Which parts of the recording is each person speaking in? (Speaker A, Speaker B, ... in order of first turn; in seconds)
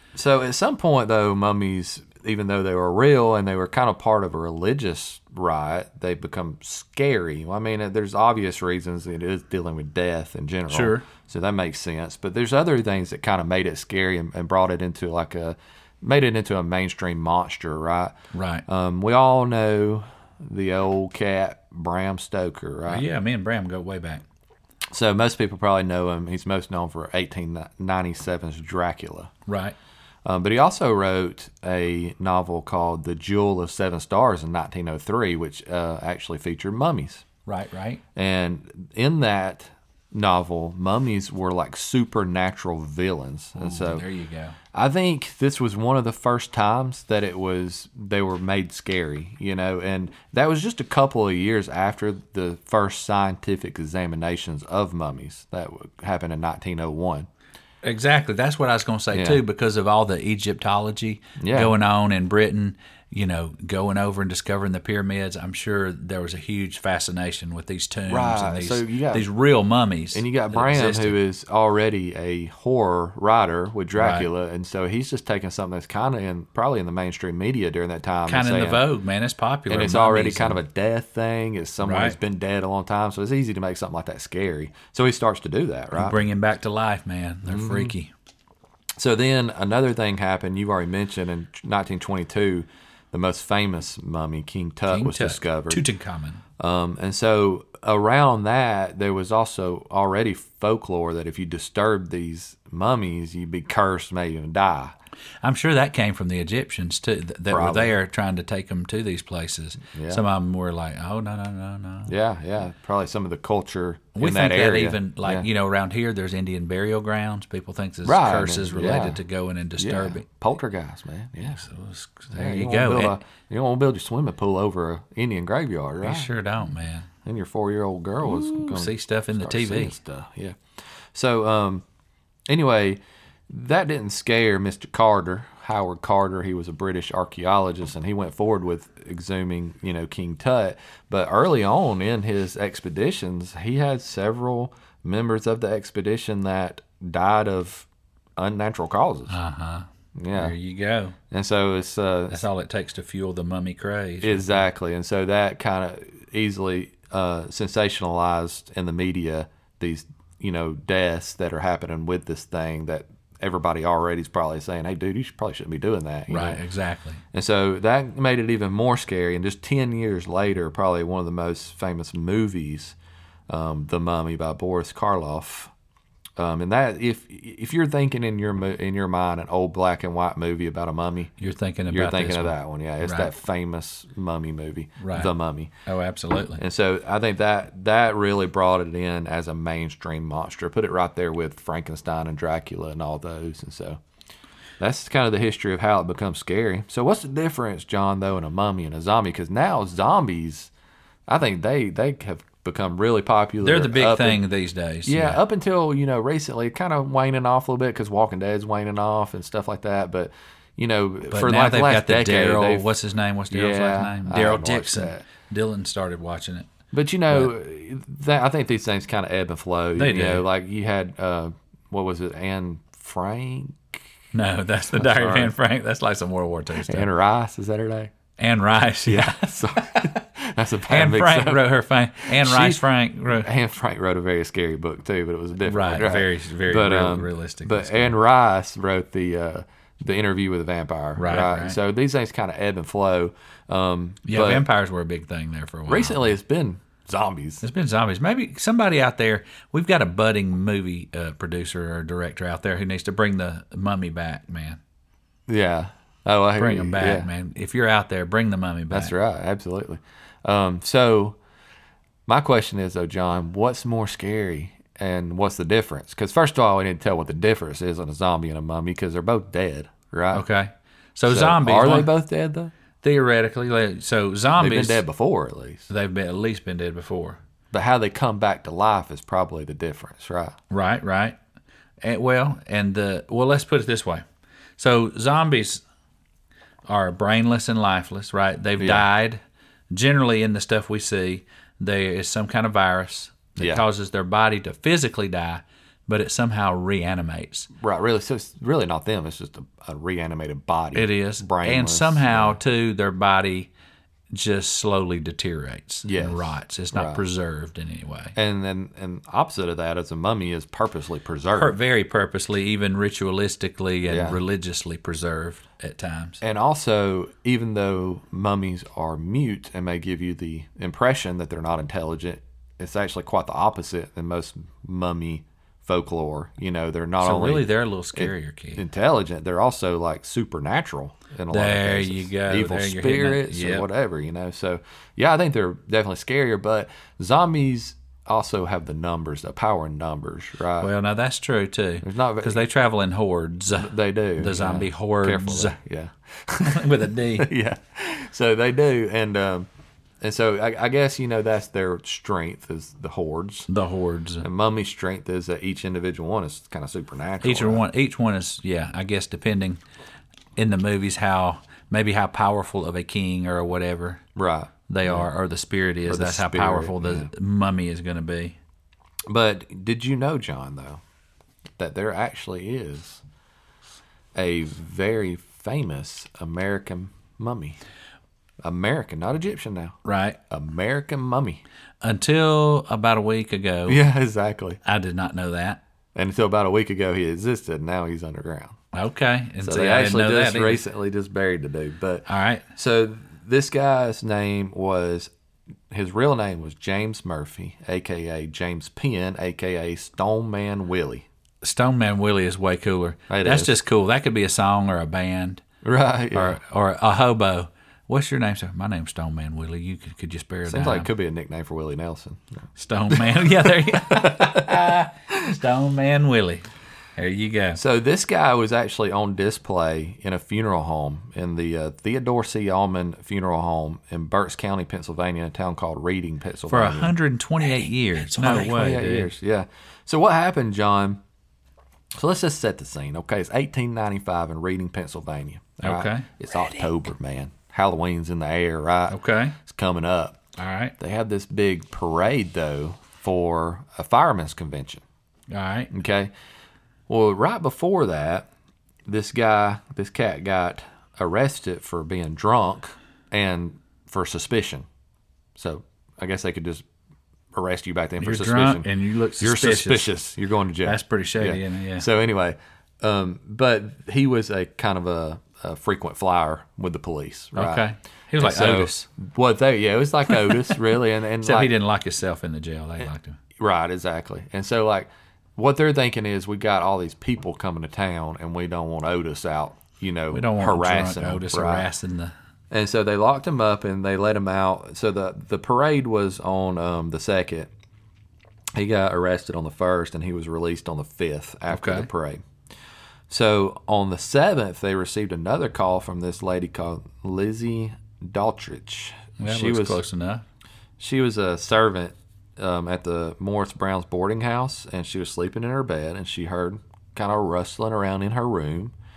Speaker A: 0.1-18.1, 18.7-23.0, 24.9-29.3, 30.2-37.2, 38.1-44.1, 44.7-57.3, 59.1-59.4, 61.4-61.8, 68.1-69.3, 70.1-78.8, 79.7-86.2, 87.5-87.9, 89.0-95.8, 96.6-105.0, 107.5-108.0, 109.8-110.2, 112.1-115.5, 118.0-119.2, 119.8-121.6, 122.3-126.3, 127.2-130.6, 131.1-131.8, 132.5-149.4, 150.2-150.6, 151.3-152.4, 154.2-166.6, 167.3-173.0, 173.5-175.7, 176.4-181.3, 181.9-185.7, 186.6-194.0, 194.8-200.7, 201.3-204.4, 205.1-212.9, 213.5-215.2, 216.9-224.0, 224.9-225.5, 226.8-228.1, 229.1-231.7, 232.2-244.7, 245.9-247.6, 255.5-257.3, 258.9-261.4, 262.3-270.4, 271.3-272.7, 274.6-275.9, 277.7-280.6, 288.8-289.1, 293.6-293.9, 297.8-302.6, 306.1-307.2, 308.4-311.8, 314.1-314.4, 316.4-340.9, 342.0-342.6, 343.8-349.7, 350.2-353.7, 354.4-357.8, 364.4-365.3, 366.1-367.3, 369.3-371.0, 371.8-373.2, 374.4-377.8, 378.6-380.0, 380.5-381.6, 383.9-384.8, 386.1-388.8, 389.6-395.3, 395.9-401.3, 403.3-403.7, 405.8-406.6, 410.7-415.5, 417.8-427.1, 428.3-431.2, 432.2-440.4, 441.0-445.0, 445.9-446.3, 447.1-448.5, 449.1-454.9, 455.6-456.9, 457.5-458.9, 459.4-467.9, 468.4-471.7, 473.6-481.9, 482.7-487.7, 488.8-492.4, 493.3-500.0, 501.0-508.9
Speaker B: 10.7-11.1, 18.3-18.6, 22.9-24.2, 29.5-29.8, 37.5-38.0, 43.6-44.6, 57.8-71.2, 74.0-74.3, 78.3-80.6, 81.8-82.2, 86.0-88.1, 94.9-96.4, 105.4-112.1, 114.2-120.2, 121.5-123.2, 126.0-127.1, 128.2-129.9, 149.3-151.2, 152.3-154.5, 166.3-167.2, 181.4-183.3, 185.0-185.3, 185.9-186.6, 203.6-205.4, 211.3-216.7, 220.0-220.4, 224.3-227.1, 228.4-230.2, 230.9-233.5, 235.7-238.2, 241.2-241.8, 244.2-246.3, 247.6-254.8, 256.6-259.1, 270.3-272.1, 273.0-275.0, 275.9-277.4, 280.7-281.4, 282.0-284.2, 284.8-285.8, 286.9-289.4, 289.9-297.7, 300.9-303.7, 304.3-308.4, 311.6-316.4, 327.2-328.8, 331.5-333.9, 340.8-345.8, 346.6-347.5, 353.7-354.5, 357.4-359.8, 360.6-364.2, 364.9-368.6, 380.0-380.4, 382.0-384.0, 384.8-385.8, 388.9-390.8, 392.3-392.6, 401.6-405.6, 406.3-411.1, 412.8-416.7, 417.2-417.8, 426.7-429.3, 435.8-436.4, 439.1-439.6, 440.6-440.9, 445.5-445.9, 458.2-460.1, 460.9-462.1, 467.6-469.1, 470.3-470.7, 471.4-473.4, 480.3-482.3, 491.7-492.1, 499.4-500.4